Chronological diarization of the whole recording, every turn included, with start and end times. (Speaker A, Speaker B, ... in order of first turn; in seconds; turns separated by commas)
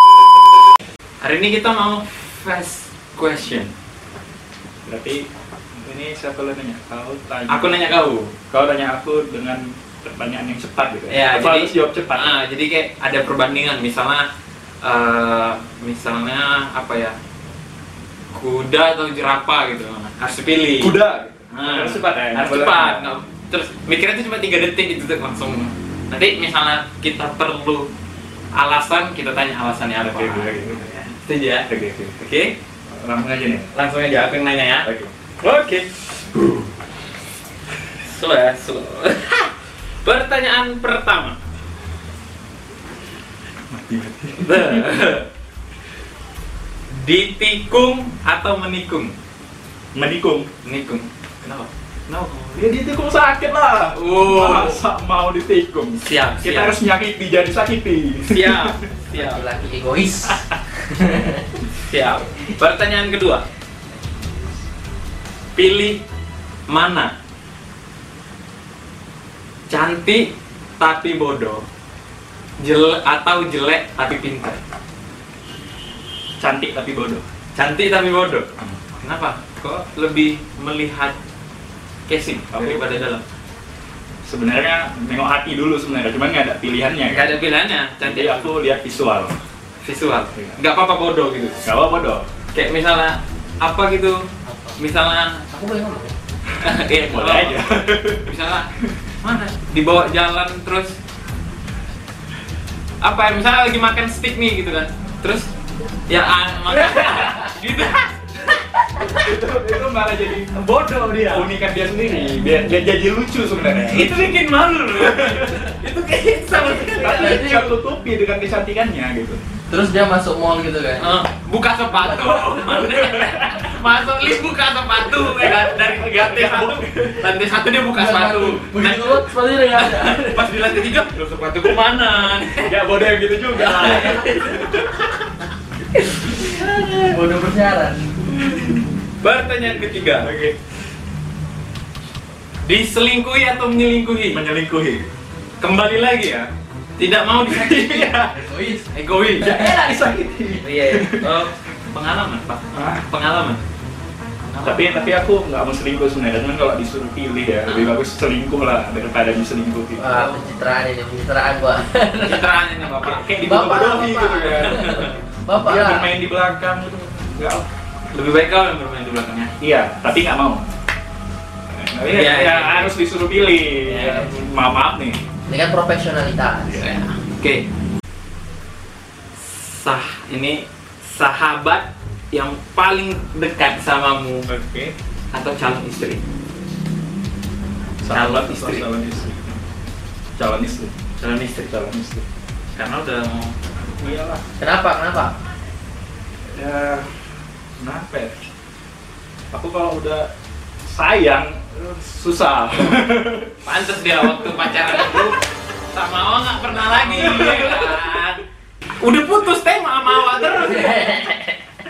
Speaker A: 1.2-3.7, Speaker B: 4.9-8.0, Speaker A: 7.5-8.3, Speaker B: 8.5-12.4, Speaker A: 11.1-14.3, Speaker A: 14.8-17.2, Speaker A: 18.3-21.0, Speaker B: 20.8-23.1, Speaker A: 21.5-27.9, Speaker A: 28.5-31.7, Speaker B: 30.0-31.1, Speaker B: 31.7-32.1, Speaker A: 32.2-32.5, Speaker B: 32.9-33.7, Speaker A: 33.7-34.9, Speaker B: 34.8-35.1, Speaker A: 35.4-35.9, Speaker B: 36.4-36.6, Speaker A: 38.0-39.5, Speaker A: 40.0-41.4, Speaker B: 43.7-45.1, Speaker A: 44.4-45.3, Speaker A: 46.9-49.1, Speaker B: 50.0-50.5, Speaker A: 50.6-51.7, Speaker B: 52.1-58.8, Speaker A: 53.9-54.8, Speaker A: 56.0-56.8, Speaker A: 58.3-59.4, Speaker C: 59.1-61.5, Speaker A: 61.8-63.4, Speaker B: 64.1-64.5, Speaker A: 65.5-66.0, Speaker A: 66.7-67.1, Speaker A: 69.7-71.7, Speaker A: 72.6-74.6, Speaker B: 76.4-77.2, Speaker A: 77.5-78.5, Speaker A: 79.0-81.2, Speaker A: 82.1-83.2, Speaker B: 82.5-83.0, Speaker B: 84.2-87.3, Speaker A: 87.1-88.5, Speaker B: 88.0-89.4, Speaker A: 89.8-91.6, Speaker B: 90.3-90.6, Speaker B: 91.6-92.3, Speaker A: 92.5-95.5, Speaker C: 94.5-94.8, Speaker C: 95.5-96.1, Speaker A: 96.6-97.6, Speaker B: 97.1-98.3, Speaker A: 98.2-98.7, Speaker A: 99.2-101.0, Speaker A: 103.0-105.5, Speaker A: 106.1-108.5, Speaker B: 106.9-107.2, Speaker B: 109.0-110.7, Speaker A: 110.6-111.5, Speaker B: 111.2-114.4, Speaker A: 113.8-117.7, Speaker B: 114.9-115.7, Speaker C: 116.5-117.7, Speaker B: 116.9-119.4, Speaker C: 119.7-121.2, Speaker A: 121.0-132.8, Speaker C: 121.9-122.7, Speaker B: 122.7-123.7, Speaker B: 125.2-127.2, Speaker C: 127.9-130.5, Speaker B: 132.6-135.1, Speaker A: 133.6-134.5, Speaker C: 133.6-134.4, Speaker C: 136.4-138.2, Speaker B: 136.5-136.9, Speaker B: 138.3-138.9, Speaker A: 139.2-140.3, Speaker B: 140.2-140.6, Speaker A: 142.6-144.4, Speaker B: 144.3-145.1, Speaker A: 145.6-148.3, Speaker B: 147.4-148.3, Speaker C: 148.1-148.9, Speaker A: 148.9-149.7, Speaker B: 149.4-151.3, Speaker C: 149.6-150.0, Speaker A: 150.6-153.6, Speaker B: 152.7-153.0, Speaker A: 154.4-155.1, Speaker B: 154.6-160.2, Speaker A: 157.7-158.0, Speaker C: 160.0-162.5, Speaker A: 162.2-163.4, Speaker B: 162.9-167.7, Speaker C: 163.4-166.1, Speaker A: 164.5-165.2, Speaker A: 168.1-169.5, Speaker B: 169.6-170.7, Speaker B: 171.7-175.2, Speaker A: 172.0-172.9, Speaker A: 173.8-174.4, Speaker C: 175.5-176.9, Speaker A: 176.7-177.7, Speaker A: 179.4-184.5, Speaker B: 184.5-184.9, Speaker A: 185.3-186.2, Speaker B: 188.0-189.6, Speaker A: 188.1-188.9, Speaker B: 190.4-190.9, Speaker A: 191.2-191.8, Speaker B: 191.7-192.2, Speaker A: 192.7-193.6, Speaker B: 193.8-194.4, Speaker C: 194.6-195.3, Speaker B: 196.5-197.1, Speaker B: 197.8-198.3, Speaker B: 199.5-200.3, Speaker B: 200.9-203.5, Speaker A: 203.7-205.4, Speaker A: 205.9-208.4, Speaker B: 207.1-208.0, Speaker A: 209.0-211.1, Speaker C: 210.5-211.6